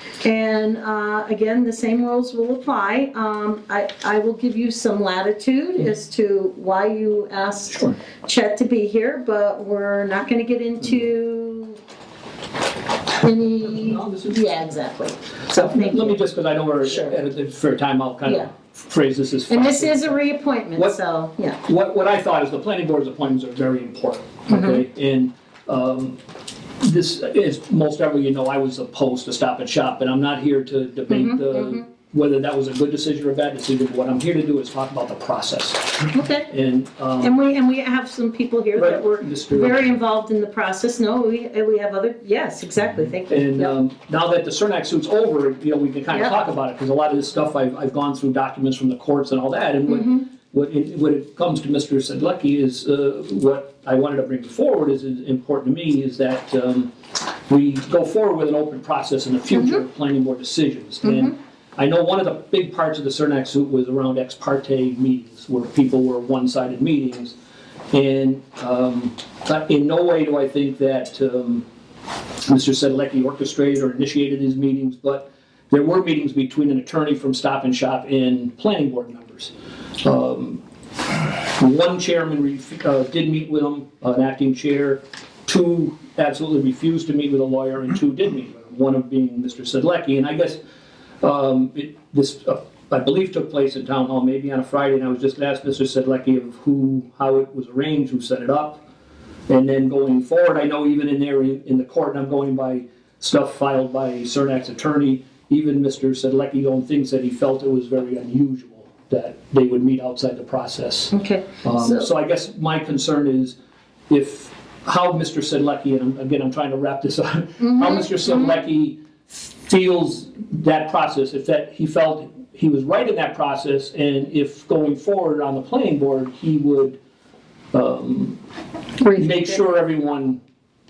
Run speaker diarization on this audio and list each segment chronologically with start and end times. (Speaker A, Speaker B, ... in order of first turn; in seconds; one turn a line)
Speaker A: 0.2-11.8
Speaker B: 7.7-8.0
Speaker A: 13.2-16.2
Speaker B: 13.7-14.5
Speaker B: 15.5-20.2
Speaker A: 16.8-17.2
Speaker A: 19.5-21.6
Speaker B: 20.7-21.0
Speaker B: 21.6-26.2
Speaker A: 24.5-24.8
Speaker B: 26.8-37.4
Speaker A: 31.1-31.8
Speaker A: 36.1-36.5
Speaker A: 37.2-43.8
Speaker B: 38.7-40.0
Speaker B: 43.3-56.9
Speaker A: 46.1-46.4
Speaker A: 49.9-50.2
Speaker B: 57.5-67.3
Speaker A: 61.0-61.3
Speaker B: 67.9-71.7
Speaker B: 72.4-80.6
Speaker B: 81.4-90.6
Speaker B: 91.2-98.8
Speaker B: 99.5-113.5
Speaker A: 111.1-112.1
Speaker B: 114.1-127.0
Speaker A: 117.6-118.6
Speaker B: 127.7-128.4
Speaker A: 129.0-129.7
Speaker B: 129.1-130.4